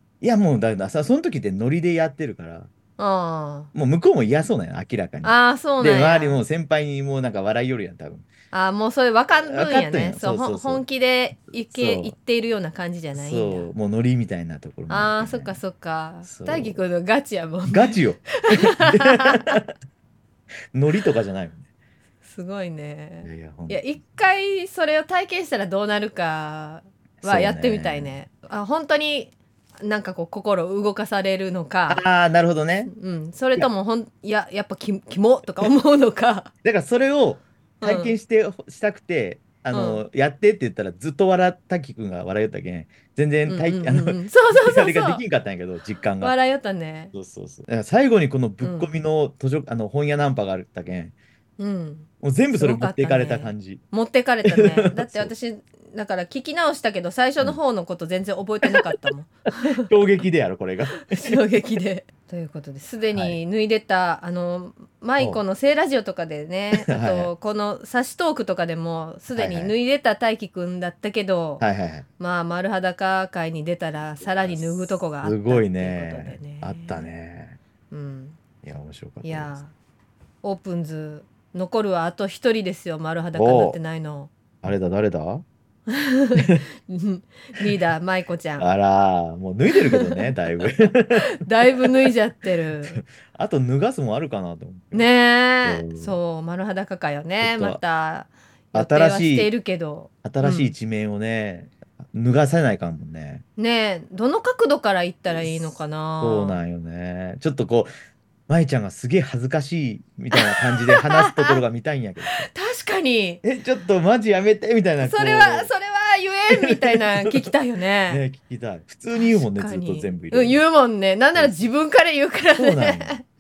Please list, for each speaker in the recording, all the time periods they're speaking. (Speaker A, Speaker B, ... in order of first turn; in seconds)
Speaker A: 0.2-2.7, 3.7-8.3, 9.4-10.8, 11.7-12.2, 13.1-15.6, 16.2-16.8, 17.7-19.7, 20.7-21.6, 23.2-23.8, 27.2-28.1, 31.9-32.9, 36.6-46.3, 47.1-51.2, 52.2-53.8, 54.5-55.3, 59.9-61.4, 66.8-67.3, 69.3-69.7, 71.6-72.1, 74.2-77.6, 78.6-79.6, 83.3-83.8, 84.6-85.5, 86.4-86.6, 88.6-92.1, 92.8-95.1, 95.6-96.2, 97.4-97.8, 98.7-99.5, 100.2-103.5, 105.3-105.6, 106.2-107.9, 108.5-112.5, 113.4-115.7, 116.6-117.5, 118.1-120.6, 122.5-123.2
Speaker B: 3.0-3.7, 5.2-6.4, 8.5-13.7, 14.9-19.6, 22.2-32.0, 32.9-36.5, 37.8-38.2, 39.7-40.0, 43.5-45.2, 46.2-47.1, 48.6-48.9, 51.6-59.9, 61.1-71.7, 72.2-77.0, 77.9-78.4, 79.2-79.7, 80.4-84.3, 85.9-88.7, 89.7-90.3, 91.2-93.0, 94.9-100.7, 103.6-106.6, 110.3-111.6, 112.3-113.4, 115.0-118.2, 119.1-123.2